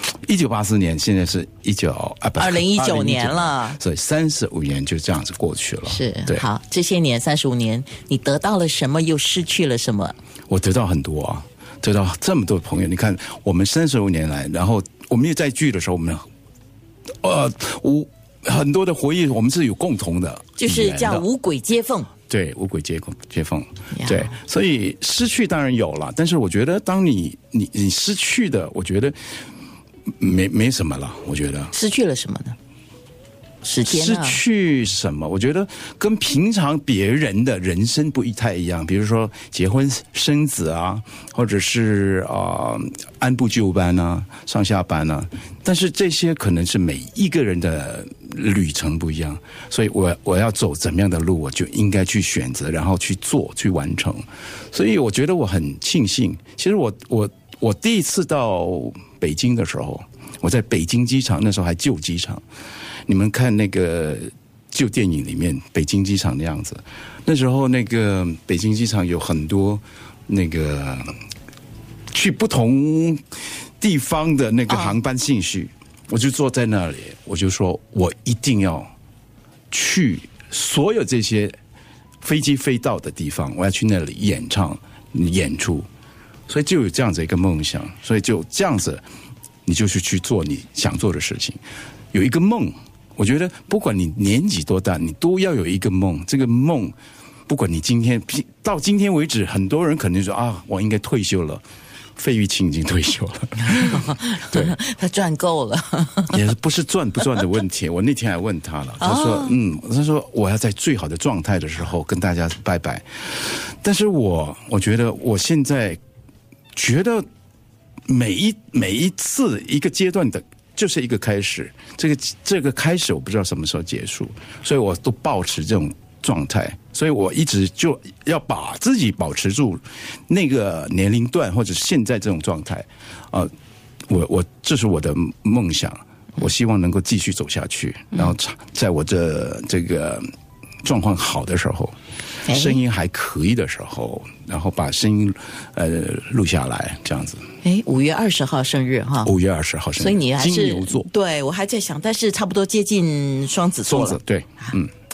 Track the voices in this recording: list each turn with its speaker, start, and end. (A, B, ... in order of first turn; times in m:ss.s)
0:00.3-0:06.5 A
0:02.4-0:03.8 B
0:05.9-0:10.2 B
0:10.5-0:16.2 A
0:17.2-0:21.3 A
0:20.6-0:22.1 B
0:22.3-0:29.2 A
0:23.9-0:24.3 B
0:30.2-0:31.7 A
0:31.7-0:32.6 B
0:33.6-0:34.4 B
0:33.8-1:02.4 A
1:03.1-1:11.2 A
1:12.1-1:18.9 A
1:14.7-1:15.0 B
1:19.7-1:21.6 A
1:22.2-1:25.9 A
1:26.5-1:29.0 A
1:29.7-1:31.6 A
1:32.1-1:37.0 A
1:37.5-1:41.6 A
1:42.2-1:44.8 A
1:43.7-1:46.4 B
1:46.3-1:56.0 A
1:49.0-1:49.6 B
1:56.7-1:57.3 A
1:58.1-2:13.5 A
2:14.1-2:20.3 A
2:20.8-2:22.0 A
2:22.4-2:22.8 B
2:22.5-2:27.4 A
2:27.6-2:29.3 B
2:29.2-2:31.1 A
2:30.0-2:34.7 B
2:33.9-2:34.9 A